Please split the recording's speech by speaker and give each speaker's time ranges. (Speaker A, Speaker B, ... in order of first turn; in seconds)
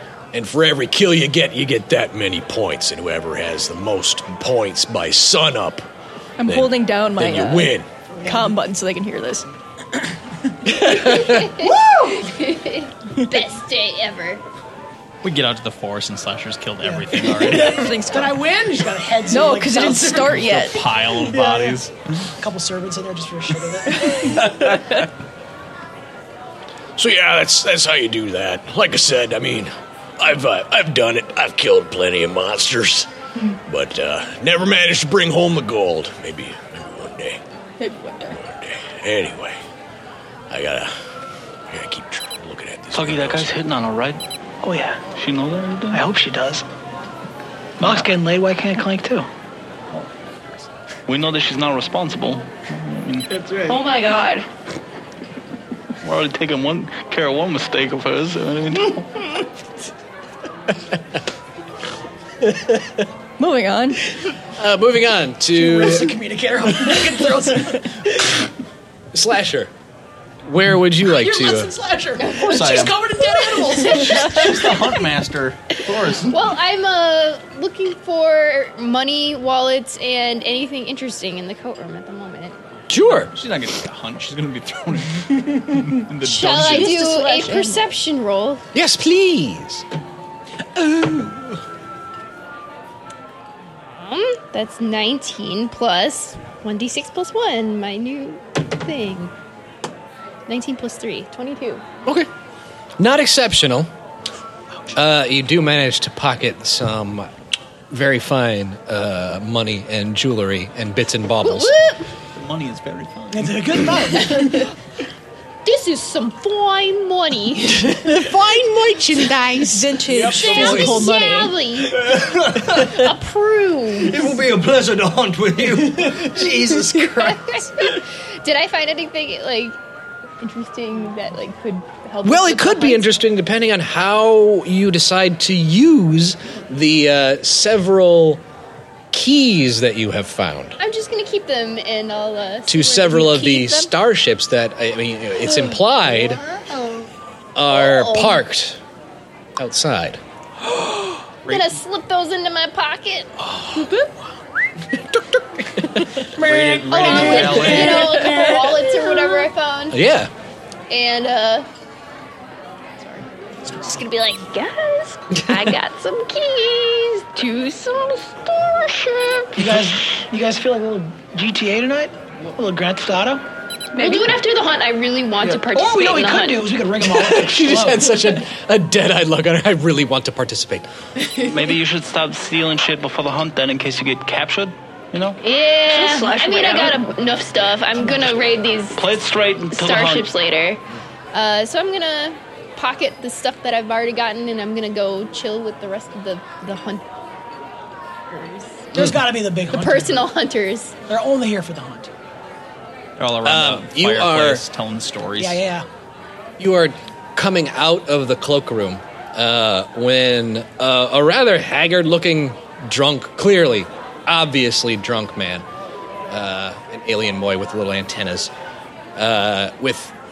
Speaker A: 0.3-5.9, 6.5-7.9, 27.0-33.1, 33.7-37.4, 38.3-39.6, 40.5-40.9, 41.7-43.5
Speaker B: 6.4-9.5, 17.5-18.4, 19.3-20.8, 37.8-38.4, 53.7-54.5, 63.4-64.0, 86.4-87.9, 119.6-121.6, 156.9-159.5, 173.9-174.4, 185.9-187.1
Speaker C: 8.1-8.5, 11.4-12.2, 16.8-21.8, 22.4-24.6, 44.6-45.0, 45.9-46.6, 47.8-49.3, 53.4-53.8, 65.5-68.2, 71.0-75.0, 113.3-114.7, 146.0-147.1, 156.4-157.8, 169.6-173.4, 175.5-178.1, 198.9-200.3, 201.1-202.1, 205.4-205.9
Speaker D: 11.1-14.4, 72.2-72.8, 76.3-82.5, 86.2-88.6, 93.9-99.3, 100.5-101.8, 111.4-112.0, 115.7-118.0, 120.3-122.2, 122.7-124.3, 127.0-129.8, 130.4-133.1, 140.8-143.9, 147.7-148.4, 151.5-153.3, 156.9-160.0, 160.9-161.7, 163.7-169.6, 174.0-176.7, 185.4-189.0, 189.7-190.8, 191.3-197.0, 198.3-198.9, 199.7-200.9
Speaker E: 15.2-17.9, 20.2-21.9, 42.9-44.2, 45.1-46.1, 47.8-48.1, 51.1-53.3, 56.0-59.4, 72.5-73.0, 73.8-76.3, 83.1-87.0, 112.3-114.0, 156.4-158.3, 181.4-185.4, 189.0-190.3, 203.2-205.6
Speaker F: 64.6-66.2, 69.1-69.7, 70.5-71.7, 82.9-83.3, 88.7-89.8, 103.0-103.9, 104.9-107.3, 107.9-111.7, 118.0-119.8, 132.2-138.4, 139.1-140.8, 142.7-146.4, 147.6-148.8, 149.6-150.2, 159.9-160.3, 177.1-180.9, 203.4-204.6, 206.6-215.6, 216.3-218.5, 219.2-220.1
Speaker G: 120.1-121.0, 121.9-123.1, 124.0-127.9